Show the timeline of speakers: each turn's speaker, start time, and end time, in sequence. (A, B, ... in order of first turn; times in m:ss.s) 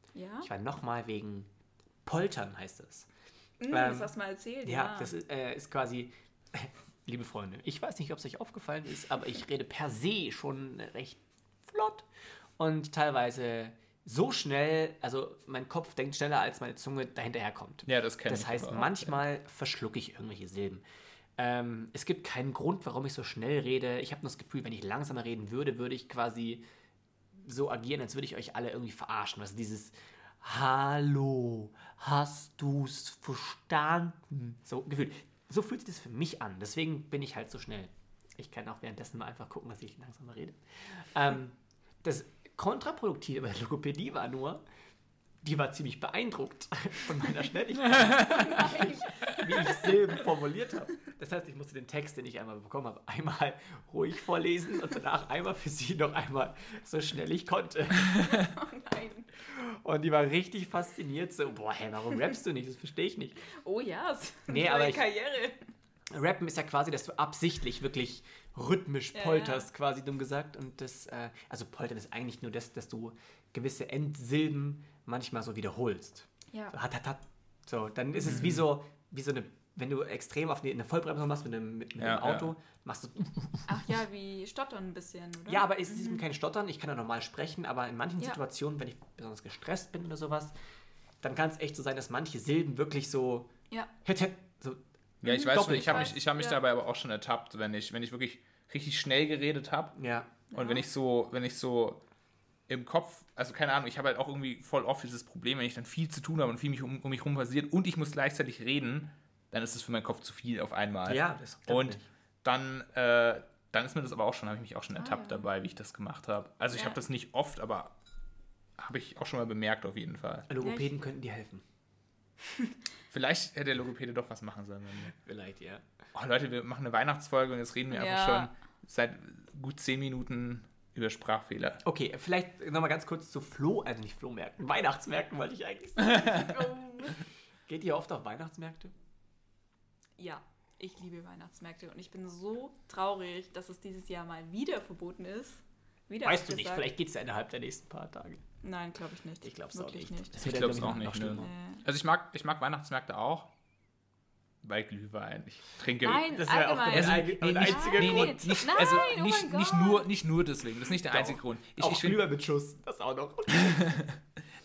0:00.1-0:00.5 A
0:00.4-0:01.5 B
0:02.0-0:03.1 B
0:03.6-0:05.1 A
0:03.7-0:12.1 B
0:12.6-0:20.8 B
0:17.8-0:19.2 C
0:21.4-0:26.6 B
0:27.3-0:44.6 B
0:45.4-0:58.4 B
0:48.1-0:50.1 A
0:58.2-0:59.3 A
0:59.4-1:03.5 B
1:03.6-1:05.6 A
1:04.5-1:05.0 B
1:06.1-1:23.9 B
1:09.1-1:09.7 A
1:18.2-1:18.6 C
1:22.0-1:22.5 C
1:23.7-1:26.2 A
1:25.5-1:30.5 B
1:31.2-1:33.5 B
1:34.0-1:36.2 B
1:35.2-1:39.9 C
1:35.2-1:36.6 A
1:40.0-1:40.4 B
1:40.5-1:40.8 A
1:40.5-1:42.0 C
1:42.7-1:57.9 C
1:51.0-1:52.0 B
1:55.0-1:55.5 A
1:56.7-1:57.0 A
1:58.8-2:00.5 C
2:00.5-2:01.6 B
2:00.6-2:00.9 A
2:03.1-2:05.1 C
2:05.1-2:05.8 B
2:06.1-2:11.8 C
2:07.9-2:08.5 A
2:11.8-2:16.7 B
2:16.3-2:17.2 A
2:17.7-2:18.9 B
2:20.2-2:26.9 A
2:26.2-2:28.4 B
2:28.6-2:31.8 A
2:29.4-2:31.5 B
2:30.4-2:33.5 C
2:34.6-2:42.2 C
2:36.0-2:40.1 A
2:36.0-2:39.1 B
2:41.0-2:44.0 B
2:43.6-2:44.2 C